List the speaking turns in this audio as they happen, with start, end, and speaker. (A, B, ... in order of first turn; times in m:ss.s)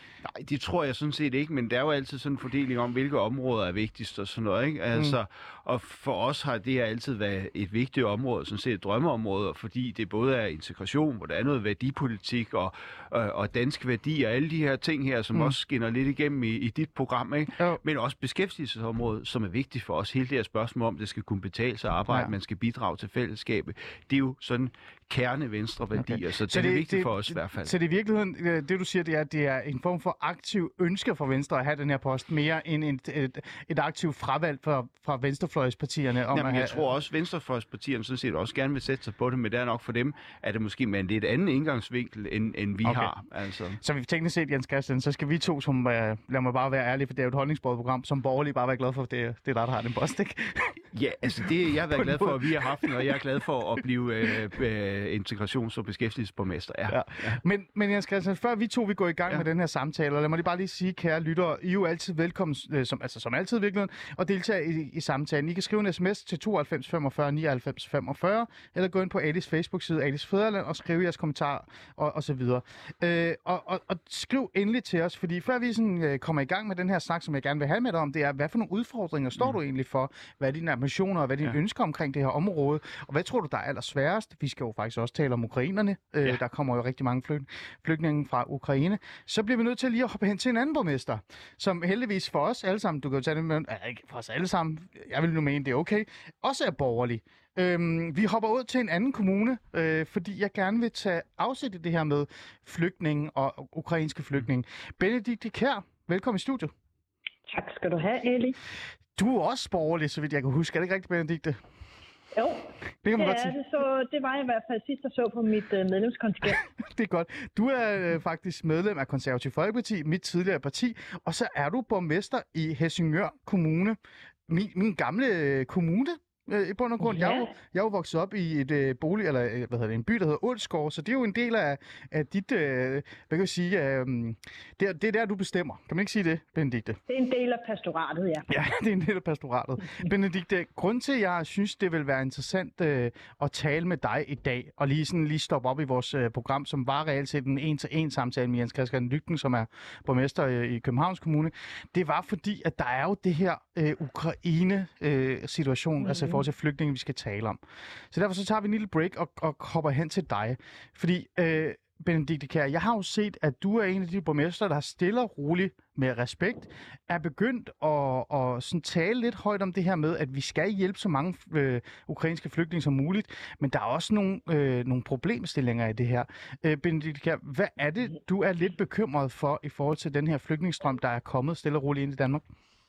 0:00.2-0:27.7 A
0:26.0-0:36.8 B
0:36.3-0:43.8 A
0:42.8-0:43.2 B
0:43.8-0:50.8 B
0:50.9-0:57.4 A
0:51.4-0:53.1 B
0:56.9-1:46.7 B
1:47.5-1:48.6 C
1:49.2-1:51.6 B
1:52.4-1:56.6 C
1:53.0-1:53.6 B
1:56.8-2:04.0 B
2:04.5-2:17.0 B
2:07.0-2:07.5 C
2:17.1-2:18.5 C
2:18.5-2:37.6 B
2:36.0-2:36.4 C
2:38.1-3:02.4 B